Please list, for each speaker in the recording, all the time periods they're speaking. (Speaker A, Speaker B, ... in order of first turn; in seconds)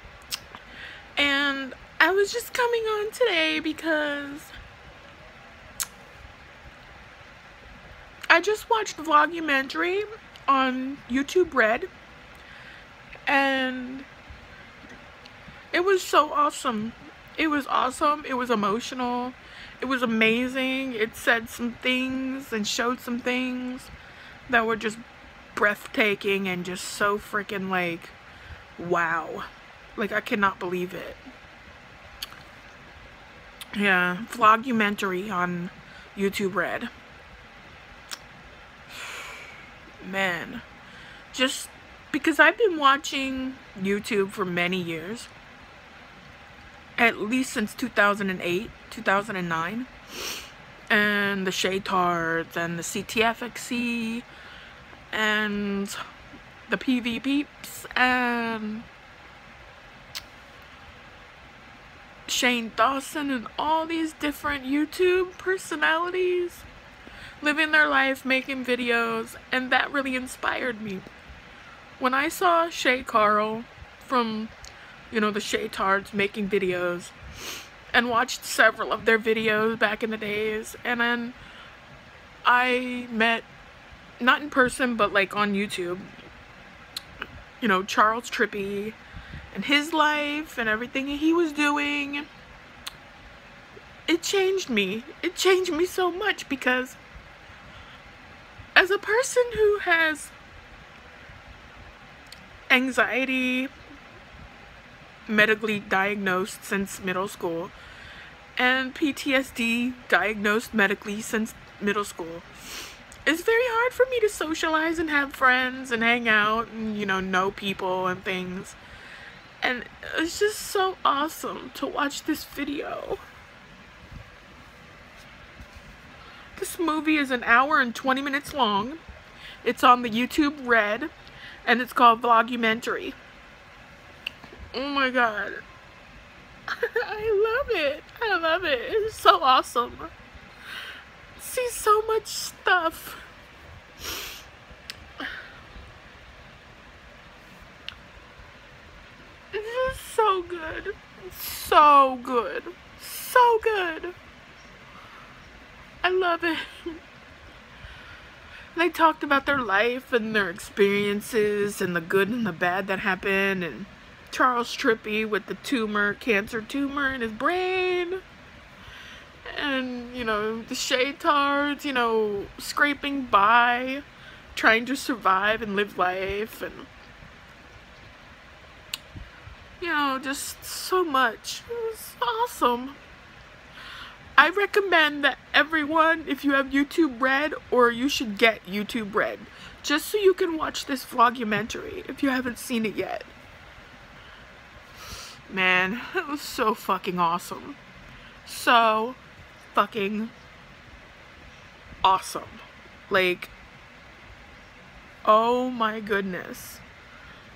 Speaker A: 1.1-4.5, 8.3-11.9, 13.3-14.1, 15.7-23.9, 24.5-25.0, 25.5-28.1, 28.8-31.2, 33.7-36.9, 40.0-40.6, 41.3-45.3, 47.0-49.9, 50.9-54.3, 55.1-56.0, 56.7-58.9, 62.3-66.7, 67.4-71.0, 72.0-74.5, 75.1-77.2, 77.9-81.3, 82.4-83.5, 84.2-86.1, 87.6-89.0, 89.5-92.3, 94.1-97.0, 98.7-100.3, 102.7-103.7, 105.3-107.7, 108.6-112.5, 113.2-118.8, 119.6-123.2, 126.5-129.0, 129.6-131.1, 131.7-133.2, 134.7-135.6, 136.7-140.1, 141.4-143.2, 149.5-154.1, 156.0-157.0, 158.8-168.2, 169.5-176.9, 179.8-183.0, 184.4-193.3, 195.5-197.8, 198.4-199.2, 199.7-200.3, 202.0-203.5, 205.2-206.8